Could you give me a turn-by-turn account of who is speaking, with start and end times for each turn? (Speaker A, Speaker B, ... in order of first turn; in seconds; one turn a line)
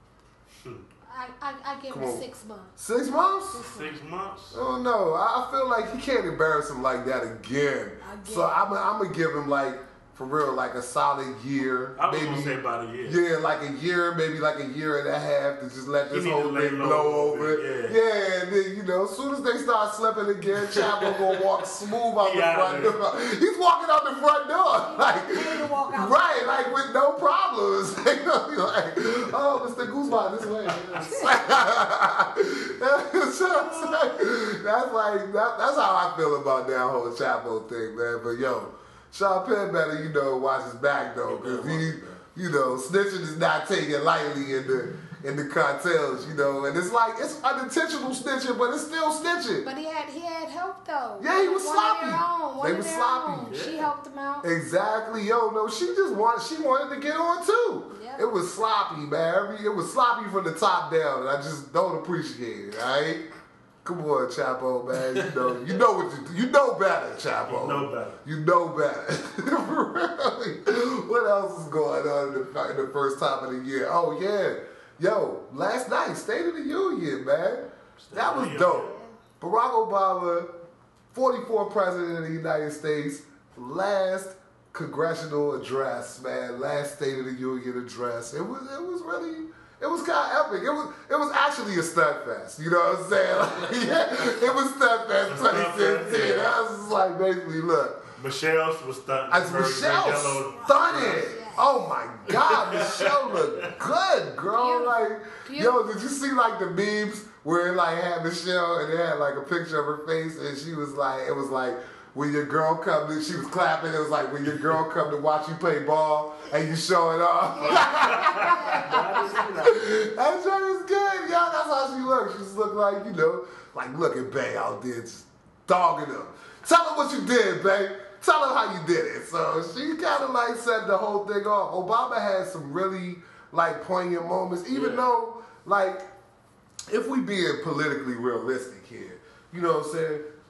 Speaker A: 0.5-0.9
Speaker B: 1.1-2.8
Speaker C: 1.9-2.3
Speaker C: 2.8-3.7
Speaker B: 3.5-3.9
Speaker A: 3.6-4.6
Speaker C: 4.5-49.7
Speaker B: 8.0-8.6
Speaker A: 12.0-13.2
Speaker A: 16.1-18.0
Speaker A: 20.7-21.3
Speaker A: 22.2-23.0
Speaker B: 24.8-26.7
Speaker A: 29.9-31.4
Speaker A: 33.4-34.2
Speaker A: 41.3-42.2
Speaker B: 49.6-54.5
Speaker C: 51.2-53.7
Speaker A: 53.5-53.9
Speaker C: 54.4-63.3
Speaker B: 57.9-58.2
Speaker C: 63.8-80.6
Speaker A: 67.5-68.2
Speaker A: 78.0-79.0
Speaker B: 78.8-79.1
Speaker C: 81.1-98.1
Speaker A: 95.3-96.6
Speaker A: 98.2-101.2
Speaker C: 99.3-136.1
Speaker B: 100.5-101.7
Speaker A: 102.3-103.7
Speaker B: 104.6-105.8
Speaker B: 117.7-119.2
Speaker A: 117.8-119.9
Speaker A: 134.7-135.1
Speaker C: 136.9-140.3